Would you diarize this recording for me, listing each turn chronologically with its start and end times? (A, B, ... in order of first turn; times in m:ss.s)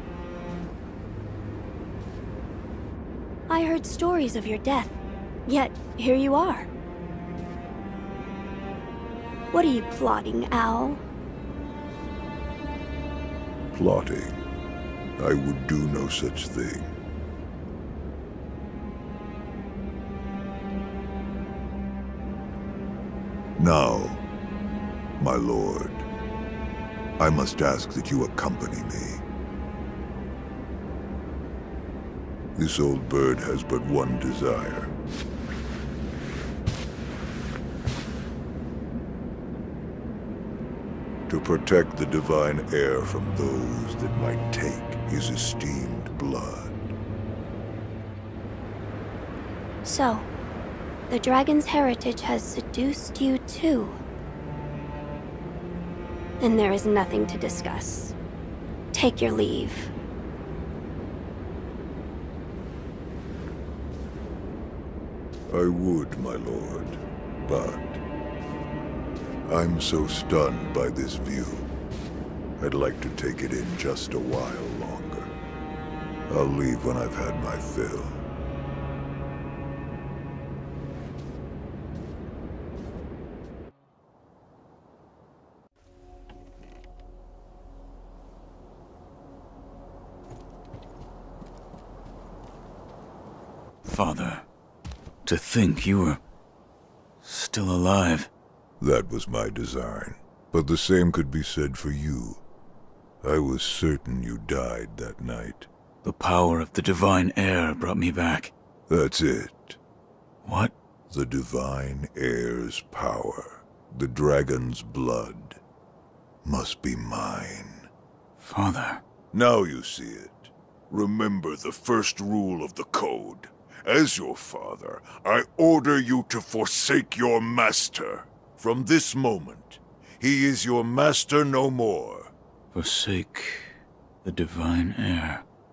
0:03.5-0:06.7 A
0:09.5-0:11.0 A
0:13.7-0:14.4 B
0:15.2-0:17.0 B
0:23.6-0:24.2 B
0:25.2-0:26.0 B
0:27.2-0:29.2 B
0:32.5-0:34.9 B
0:41.3-0:46.9 B
0:49.8-0:50.3 A
0:51.1-0:54.0 A
0:56.4-0:58.2 A
0:58.9-0:59.9 A
1:05.5-1:08.0 B
1:09.4-1:11.7 B
1:12.6-1:15.3 B
1:16.3-1:18.2 B
1:33.8-1:34.5 C
1:35.2-1:36.2 C
1:37.2-1:38.3 C
1:38.8-1:42.4 B
1:43.2-1:45.7 B
1:46.0-1:48.5 C
1:48.9-1:49.8 B
1:50.4-1:50.7 C
1:51.1-1:55.6 B
1:56.4-1:57.9 B
1:58.4-1:59.0 C
1:59.3-2:12.3 B
2:12.7-2:15.4 C